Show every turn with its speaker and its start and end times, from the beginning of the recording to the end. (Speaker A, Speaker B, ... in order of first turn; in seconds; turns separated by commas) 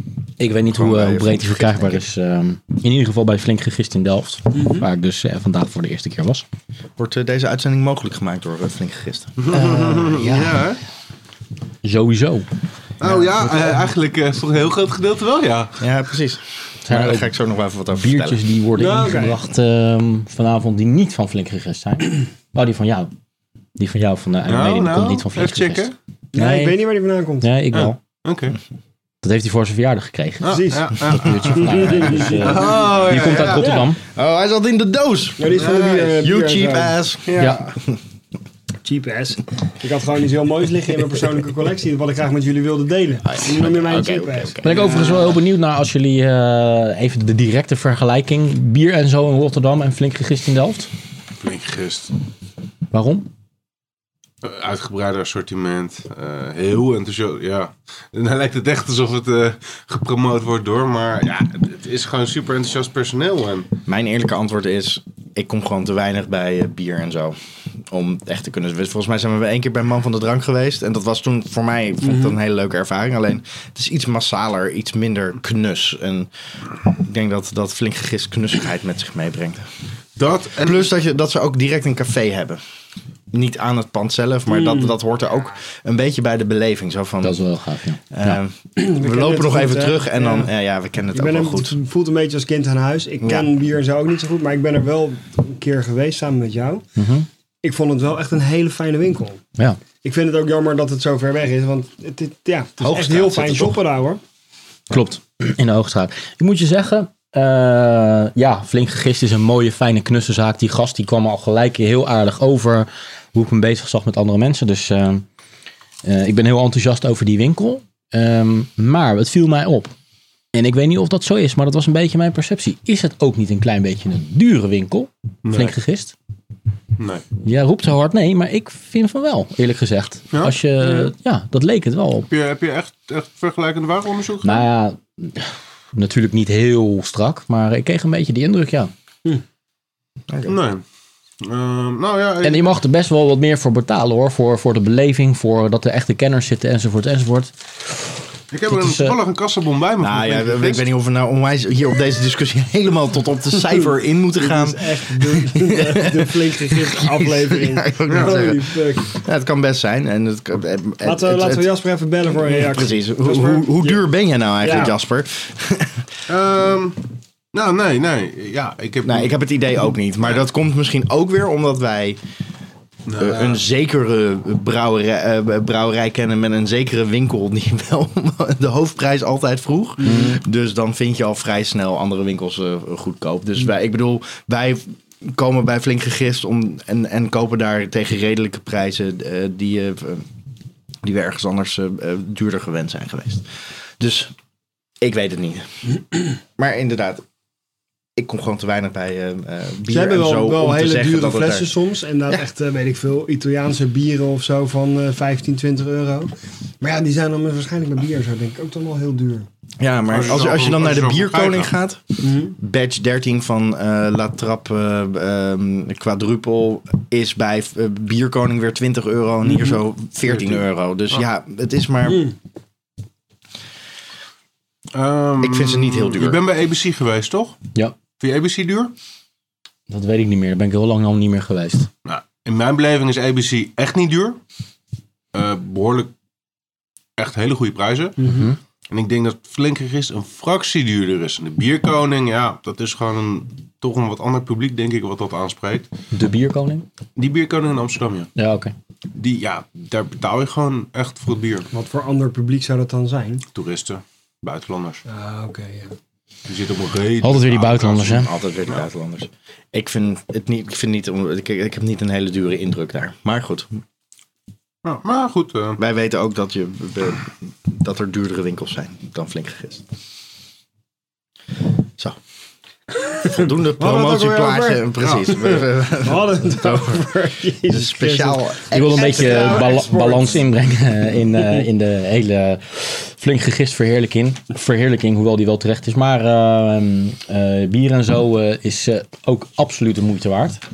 Speaker A: 0.4-6.5, Speaker B: 0.7-2.0, Speaker C: 4.5-4.9, Speaker B: 7.0-10.1, Speaker D: 9.4-10.8, Speaker A: 9.5-10.6, Speaker A: 11.8-12.5, Speaker D: 13.0-15.8, Speaker B: 13.0-13.6, Speaker B: 15.8-18.4, Speaker A: 16.9-17.3, Speaker A: 17.9-23.1, Speaker C: 18.8-19.4, Speaker A: 23.8-26.8, Speaker D: 24.5-25.9, Speaker C: 26.3-27.5, Speaker A: 27.4-28.0, Speaker D: 27.7-28.6, Speaker A: 29.2-34.0, Speaker D: 30.4-33.7, Speaker C: 30.5-33.0, Speaker C: 33.6-33.9, Speaker B: 34.1-37.4, Speaker C: 35.4-37.0, Speaker D: 35.5-36.1, Speaker D: 37.3-37.7, Speaker A: 37.4-37.6, Speaker C: 38.8-45.4, Speaker B: 43.2-44.9, Speaker A: 44.6-50.9, Speaker D: 51.4-52.1, Speaker A: 52.9-53.3, Speaker D: 54.4-63.7, Speaker B: 63.9-76.3, Speaker C: 72.0-72.4, Speaker B: 76.9-79.7, Speaker D: 80.2-80.9, Speaker B: 80.6-82.6, Speaker B: 83.3-87.4, Speaker C: 84.5-85.0, Speaker A: 87.2-88.4, Speaker B: 88.1-91.8, Speaker C: 88.8-90.5, Speaker C: 91.1-96.9, Speaker B: 93.2-93.5, Speaker A: 97.0-97.3, Speaker C: 97.6-99.4, Speaker C: 100.0-104.2, Speaker B: 102.8-103.8, Speaker A: 104.9-115.2, Speaker A: 116.0-119.9, Speaker A: 120.5-126.2, Speaker D: 125.5-125.8, Speaker D: 127.0-127.2, Speaker A: 127.4-132.3, Speaker D: 132.3-134.7, Speaker A: 134.4-138.9, Speaker B: 140.3-140.6, Speaker D: 140.5-140.8, Speaker D: 141.4-142.7, Speaker A: 142.4-147.5, Speaker D: 148.5-150.9, Speaker A: 148.7-149.2, Speaker B: 150.0-161.7, Speaker C: 154.4-159.1, Speaker D: 158.1-158.4, Speaker C: 161.0-164.0, Speaker B: 162.3-166.1, Speaker C: 164.6-164.9, Speaker D: 166.3-169.4, Speaker B: 169.0-172.2, Speaker D: 173.1-173.6, Speaker B: 173.2-190.3, Speaker C: 180.0-180.4, Speaker B: 191.0-193.5, Speaker B: 194.0-194.3, Speaker B: 195.0-195.7, Speaker B: 196.6-197.2, Speaker B: 198.2-201.7, Speaker C: 199.9-209.5, Speaker B: 209.8-222.3, Speaker D: 210.1-211.7, Speaker C: 212.2-212.6, Speaker C: 219.4-219.8, Speaker D: 220.3-221.2, Speaker C: 222.0-222.3, Speaker D: 224.9-227.6, Speaker B: 225.4-226.4, Speaker D: 228.2-228.9, Speaker A: 229.9-231.9, Speaker D: 232.1-234.4, Speaker D: 235.3-236.1, Speaker D: 237.2-238.2, Speaker C: 238.2-238.5, Speaker A: 238.2-238.6, Speaker D: 238.9-245.9, Speaker A: 246.1-246.9, Speaker D: 247.2-248.3, Speaker A: 248.4-248.7, Speaker D: 249.2-251.7, Speaker C: 251.7-253.4, Speaker D: 253.5-255.0, Speaker C: 255.1-255.9, Speaker D: 256.5-258.8, Speaker A: 257.2-258.3, Speaker B: 257.8-263.7, Speaker D: 264.8-265.8, Speaker B: 265.8-269.9, Speaker C: 273.2-280.4, Speaker B: 273.3-279.9, Speaker A: 278.7-290.6